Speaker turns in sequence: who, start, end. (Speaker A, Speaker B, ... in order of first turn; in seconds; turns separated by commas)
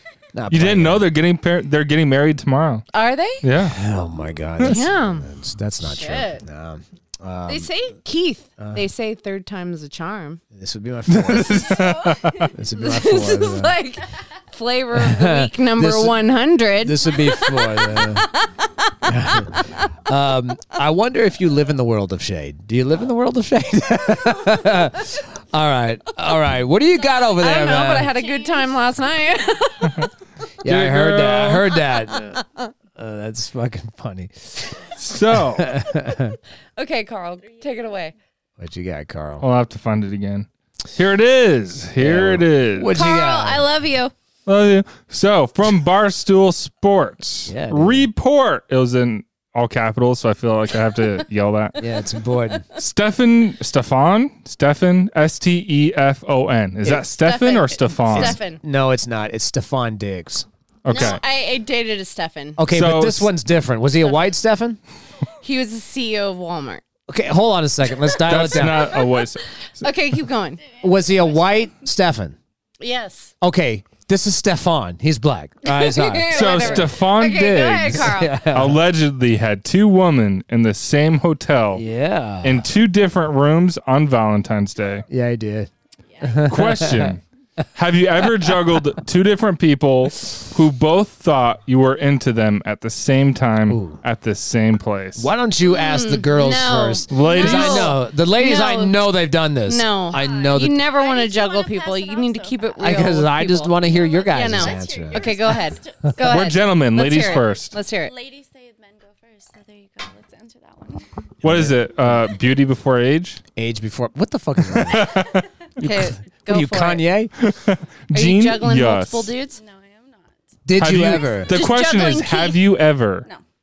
Speaker A: 0.3-1.1, Speaker B: 0.5-2.9, Speaker C: 2.9-3.4, Speaker B: 3.4-3.8, Speaker A: 3.7-7.7, Speaker C: 4.6-5.3, Speaker C: 5.8-6.4, Speaker C: 7.5-10.4, Speaker A: 10.5-11.9, Speaker B: 11.1-12.5, Speaker D: 11.4-12.6, Speaker A: 12.5-13.8, Speaker C: 12.8-18.9, Speaker A: 14.9-16.2, Speaker A: 16.8-18.3, Speaker A: 19.0-28.1, Speaker C: 27.4-30.1, Speaker D: 28.0-28.8, Speaker A: 30.6-32.4, Speaker B: 30.6-31.7, Speaker A: 33.0-36.4, Speaker B: 35.0-35.7, Speaker C: 36.8-38.1, Speaker D: 37.4-38.1, Speaker A: 38.6-39.5, Speaker B: 39.4-42.9, Speaker A: 42.0-43.7, Speaker C: 42.9-44.1, Speaker B: 44.5-51.8, Speaker A: 47.5-48.1, Speaker A: 51.8-52.7, Speaker B: 52.8-58.4, Speaker C: 57.1-58.6, Speaker A: 58.1-60.5, Speaker B: 60.9-61.2, Speaker C: 60.9-62.6, Speaker A: 62.6-64.8, Speaker B: 62.7-63.3, Speaker C: 65.4-66.8, Speaker A: 67.1-69.0, Speaker B: 68.2-69.8, Speaker C: 69.8-70.6, Speaker D: 70.7-71.7, Speaker A: 70.8-72.4, Speaker C: 72.8-73.3, Speaker A: 73.4-76.9, Speaker C: 75.7-78.4, Speaker B: 76.3-81.8, Speaker A: 77.9-78.8, Speaker A: 81.8-82.7, Speaker B: 82.4-85.0, Speaker A: 85.1-85.7, Speaker D: 86.1-86.5, Speaker A: 86.2-87.2, Speaker B: 86.5-87.2, Speaker B: 87.8-95.3, Speaker A: 93.7-94.0, Speaker A: 95.2-100.8, Speaker C: 95.7-99.0, Speaker B: 97.1-98.0, Speaker C: 99.7-103.8, Speaker D: 100.1-103.1, Speaker A: 102.8-105.3, Speaker D: 103.7-106.6, Speaker C: 104.3-108.1, Speaker B: 106.2-107.7, Speaker D: 107.1-111.1, Speaker A: 111.4-112.1, Speaker B: 111.4-113.4, Speaker A: 113.6-115.3, Speaker B: 114.9-115.3, Speaker D: 115.0-115.4, Speaker C: 115.8-117.0, Speaker A: 115.8-117.3, Speaker B: 117.4-119.3, Speaker C: 118.1-119.6, Speaker D: 119.5-120.6, Speaker A: 120.7-121.5, Speaker B: 120.8-123.3, Speaker C: 121.5-122.6